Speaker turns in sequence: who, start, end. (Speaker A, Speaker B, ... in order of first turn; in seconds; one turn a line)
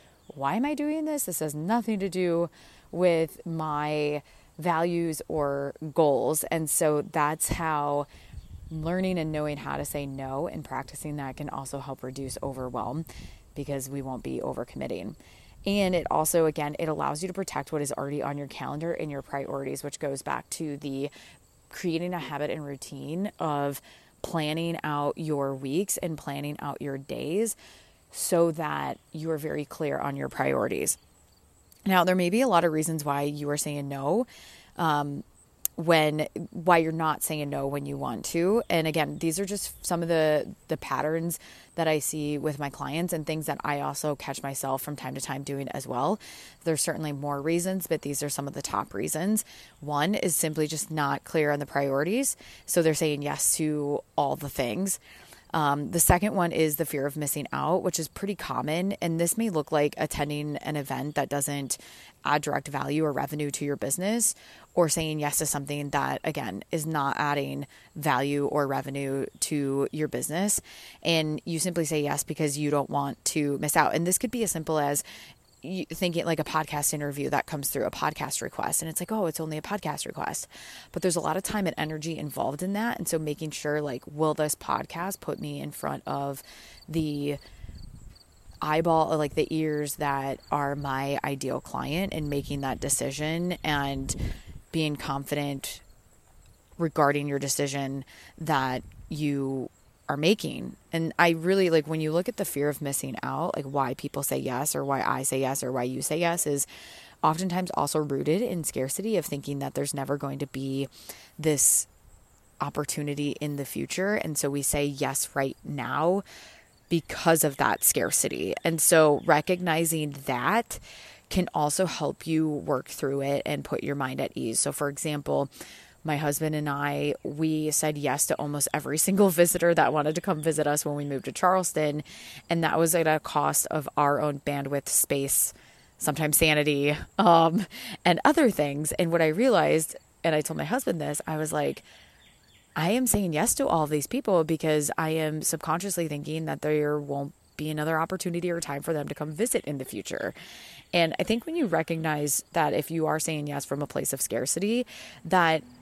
Speaker A: 0.3-8.1
Speaker A: 8.7-21.1
Speaker A: 21.7-27.6
Speaker A: 28.1-31.0
Speaker A: 31.9-35.2
Speaker A: 35.8-55.0
Speaker A: 55.5-75.0
Speaker A: 75.6-87.4
Speaker A: 88.6-94.2
Speaker A: 94.7-95.8
Speaker A: 96.8-106.7
Speaker A: 107.2-111.9
Speaker A: 112.6-116.2
Speaker A: 116.9-125.5
Speaker A: 126.0-141.9
Speaker A: 142.8-150.3
Speaker A: 150.9-155.7